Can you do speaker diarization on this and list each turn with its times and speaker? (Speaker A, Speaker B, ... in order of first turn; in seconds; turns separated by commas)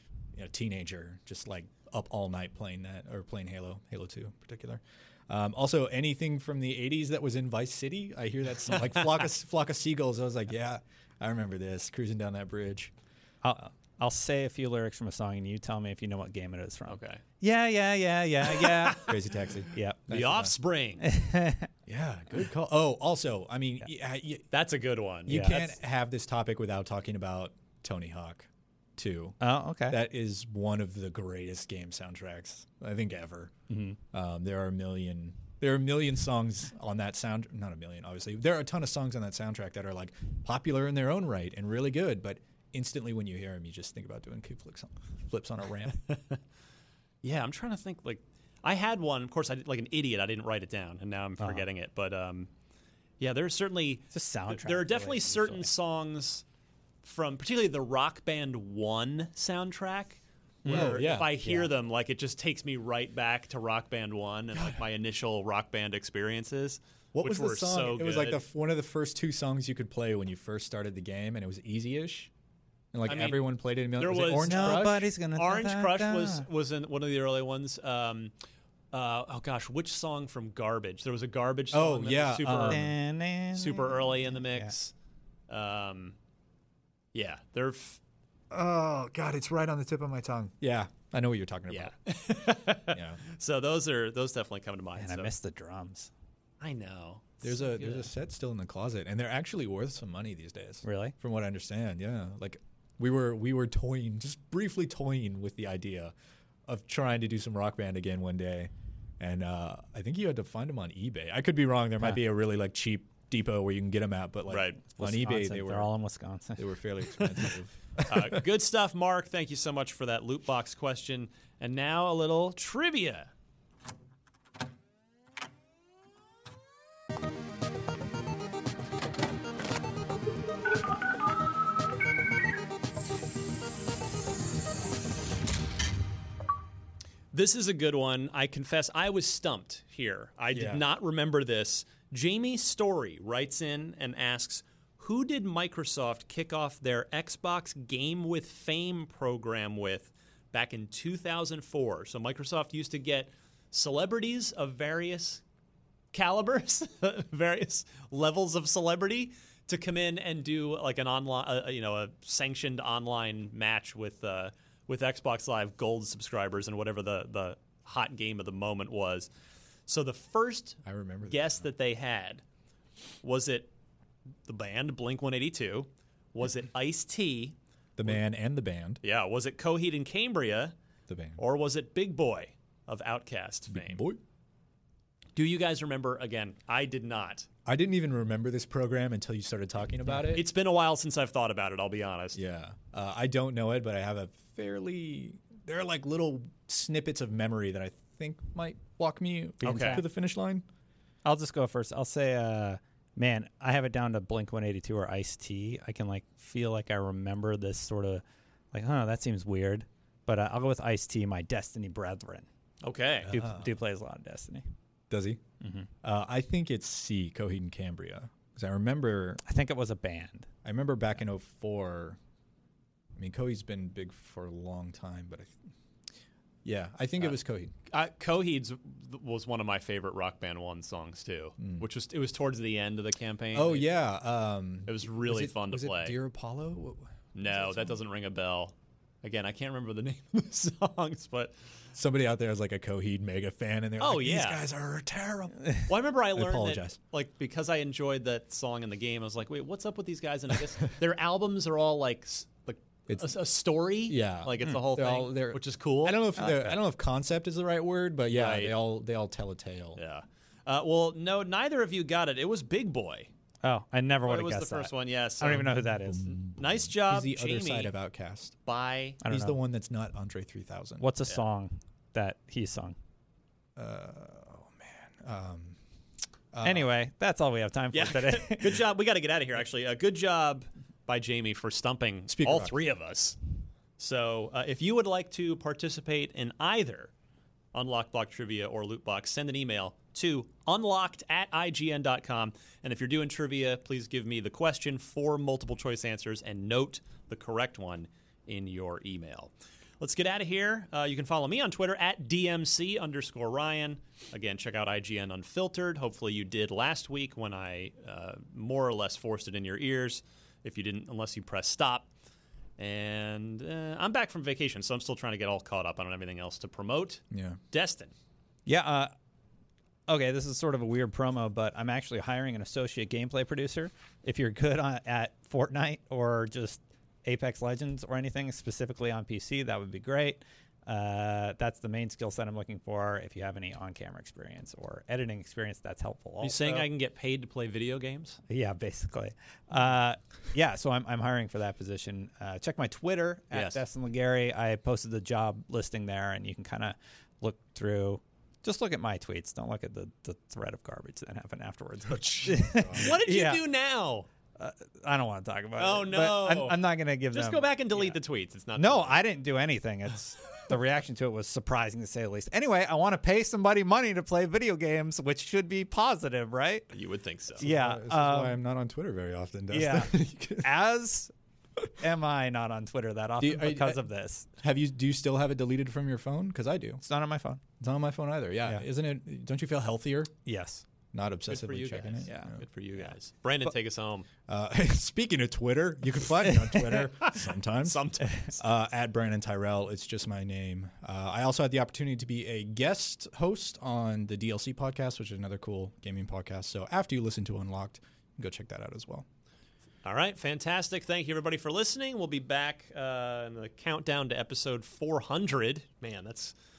Speaker A: 0.3-12.9, Speaker B: 13.4-19.2, Speaker C: 16.9-17.2, Speaker C: 18.5-19.1, Speaker A: 19.0-20.5, Speaker B: 19.7-20.1, Speaker C: 20.1-21.1, Speaker B: 21.0-21.7, Speaker A: 21.9-24.5, Speaker C: 24.5-25.7, Speaker A: 25.3-33.5, Speaker B: 25.3-25.7, Speaker B: 29.4-30.0, Speaker B: 33.7-34.0, Speaker A: 34.1-46.0, Speaker C: 46.1-46.4, Speaker C: 47.2-52.5, Speaker C: 53.2-56.4, Speaker B: 54.1-55.7, Speaker C: 57.0-68.4, Speaker B: 60.6-61.7, Speaker A: 60.6-61.3, Speaker A: 64.5-64.8, Speaker A: 67.1-72.3, Speaker A: 72.9-75.1, Speaker C: 73.1-78.3, Speaker B: 74.5-76.5, Speaker C: 78.9-82.9, Speaker A: 81.7-82.9, Speaker B: 82.6-84.7, Speaker C: 83.5-84.9, Speaker C: 85.5-86.2, Speaker C: 87.1-88.0, Speaker A: 88.5-92.0, Speaker C: 91.7-95.3, Speaker A: 92.9-93.2, Speaker B: 95.0-96.1, Speaker C: 96.6-98.1, Speaker A: 97.4-106.1, Speaker B: 100.8-101.1, Speaker A: 106.7-115.9, Speaker C: 114.5-114.8, Speaker B: 115.0-117.3, Speaker A: 116.6-118.4, Speaker C: 118.1-123.3, Speaker C: 137.3-155.4, Speaker A: 140.5-140.8, Speaker C: 156.1-169.3, Speaker C: 169.9-172.4, Speaker A: 170.8-171.7, Speaker C: 173.2-173.7, Speaker C: 174.5-178.2, Speaker A: 178.0-179.0, Speaker C: 179.0-180.7, Speaker A: 181.1-181.4, Speaker C: 181.4-184.1, Speaker A: 183.7-184.2, Speaker C: 185.3-187.5, Speaker A: 187.7-190.5, Speaker C: 190.3-192.4, Speaker A: 192.3-200.7, Speaker C: 199.6-200.0, Speaker B: 201.2-212.5, Speaker C: 212.8-213.3, Speaker A: 213.2-213.7, Speaker B: 213.3-214.6, Speaker A: 215.1-215.4, Speaker B: 215.6-215.9, Speaker A: 216.0-219.4, Speaker B: 219.5-220.5, Speaker A: 220.7-222.2, Speaker A: 223.2-225.5, Speaker A: 226.7-227.7, Speaker C: 227.9-233.9, Speaker A: 231.6-231.9, Speaker A: 233.5-238.0, Speaker C: 234.9-236.2, Speaker C: 237.3-241.5, Speaker A: 241.9-247.0, Speaker C: 244.0-244.7, Speaker C: 245.9-256.2, Speaker A: 253.1-253.4, Speaker A: 254.0-260.0, Speaker B: 256.4-256.8, Speaker C: 258.3-258.8, Speaker C: 260.0-263.3, Speaker B: 263.6-266.4, Speaker C: 264.2-265.8, Speaker A: 266.0-268.6, Speaker C: 266.4-267.9, Speaker C: 268.7-269.2, Speaker B: 269.2-269.6, Speaker A: 269.3-271.1, Speaker B: 271.0-273.0, Speaker A: 273.8-275.8, Speaker A: 276.5-276.9, Speaker B: 276.6-278.8, Speaker C: 277.9-283.4, Speaker A: 282.3-282.8, Speaker C: 284.0-287.1, Speaker C: 287.7-312.1, Speaker C: 312.8-318.1, Speaker A: 317.3-317.6, Speaker B: 318.7-319.1, Speaker B: 320.1-336.9, Speaker C: 336.4-338.4, Speaker B: 338.5-353.6, Speaker C: 343.5-343.8, Speaker A: 352.1-353.2, Speaker C: 352.9-354.3, Speaker B: 354.6-358.2, Speaker C: 355.8-359.2, Speaker B: 358.8-366.9, Speaker C: 366.9-367.6, Speaker B: 367.6-368.6, Speaker A: 367.6-370.7, Speaker B: 369.7-371.3, Speaker B: 372.0-374.5, Speaker A: 373.4-374.1, Speaker A: 374.6-377.0, Speaker B: 377.0-377.6, Speaker A: 377.8-380.4, Speaker B: 380.4-380.8, Speaker A: 381.1-382.6, Speaker C: 381.5-384.3, Speaker B: 382.3-383.1, Speaker A: 384.5-399.3, Speaker B: 386.4-387.2, Speaker C: 387.8-388.6, Speaker C: 400.0-406.5